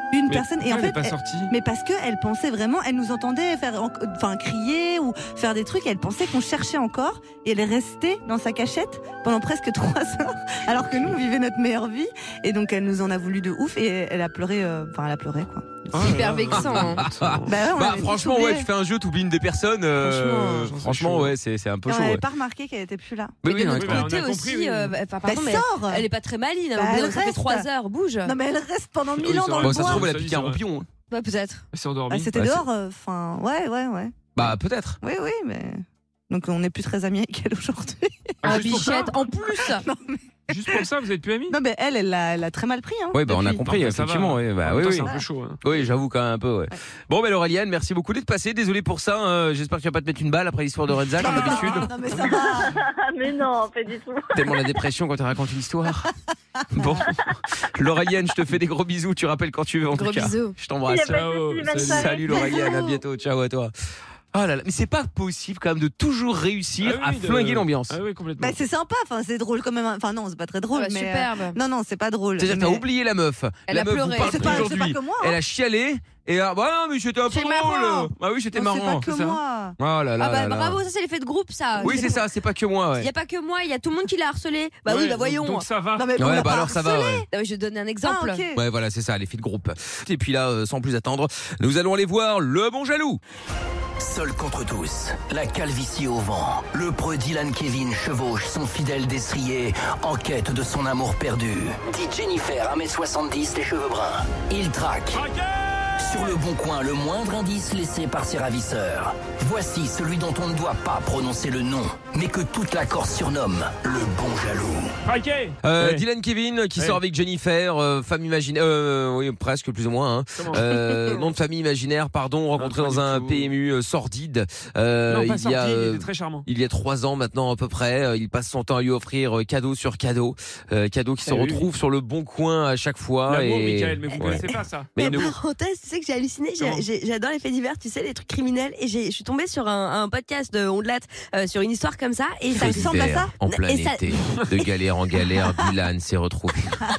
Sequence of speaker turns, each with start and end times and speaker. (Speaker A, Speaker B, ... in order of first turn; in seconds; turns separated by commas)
Speaker A: 0.1-16.1, Speaker B: 0.3-1.5, Speaker B: 15.9-17.5, Speaker C: 16.0-17.0, Speaker D: 16.5-22.2, Speaker A: 17.4-18.7, Speaker B: 20.0-21.3, Speaker A: 20.1-20.6, Speaker A: 21.9-23.4, Speaker D: 23.4-24.1, Speaker C: 23.5-28.3, Speaker B: 23.7-24.9, Speaker A: 25.2-26.1, Speaker A: 26.7-27.6, Speaker A: 28.2-30.1, Speaker B: 29.2-30.6, Speaker D: 29.6-30.9, Speaker C: 31.1-31.6, Speaker B: 31.7-32.5, Speaker A: 32.1-38.8, Speaker D: 32.4-32.6, Speaker D: 34.4-35.0, Speaker B: 38.4-39.3, Speaker C: 38.4-39.8, Speaker A: 39.5-40.8, Speaker B: 40.5-41.5, Speaker A: 41.5-43.6, Speaker D: 43.1-45.1, Speaker B: 43.6-45.6, Speaker D: 45.6-51.9, Speaker B: 51.2-52.7, Speaker A: 51.2-52.7, Speaker E: 52.6-54.8, Speaker D: 54.3-56.1, Speaker A: 56.7-57.0, Speaker D: 56.7-61.2, Speaker C: 59.9-60.5, Speaker E: 60.9-62.4, Speaker B: 61.1-62.2, Speaker D: 61.9-63.7, Speaker A: 62.3-62.8, Speaker D: 64.3-68.0, Speaker B: 66.8-68.6, Speaker A: 68.4-72.8, Speaker C: 70.7-71.6, Speaker D: 72.4-79.0, Speaker C: 73.7-74.8, Speaker A: 74.2-75.4, Speaker C: 77.3-77.8, Speaker A: 77.4-79.7, Speaker B: 79.0-79.4, Speaker D: 79.8-80.8, Speaker C: 80.2-82.2, Speaker A: 81.8-82.2, Speaker D: 81.8-83.1, Speaker C: 83.0-85.6, Speaker B: 84.8-86.2, Speaker A: 86.0-87.2, Speaker D: 86.2-87.2, Speaker C: 87.3-88.4, Speaker A: 88.0-88.6, Speaker D: 88.5-93.2, Speaker F: 94.0-105.2, Speaker B: 105.1-106.3, Speaker F: 106.0-114.9, Speaker B: 115.0-116.0, Speaker D: 115.6-134.4, Speaker B: 120.4-120.7, Speaker B: 122.6-123.5, Speaker B: 125.1-126.4, Speaker B: 131.2-131.6, Speaker B: 133.3-134.9, Speaker D: 134.9-135.3, Speaker C: 135.0-144.1, Speaker A: 142.5-143.3, Speaker D: 142.6-146.7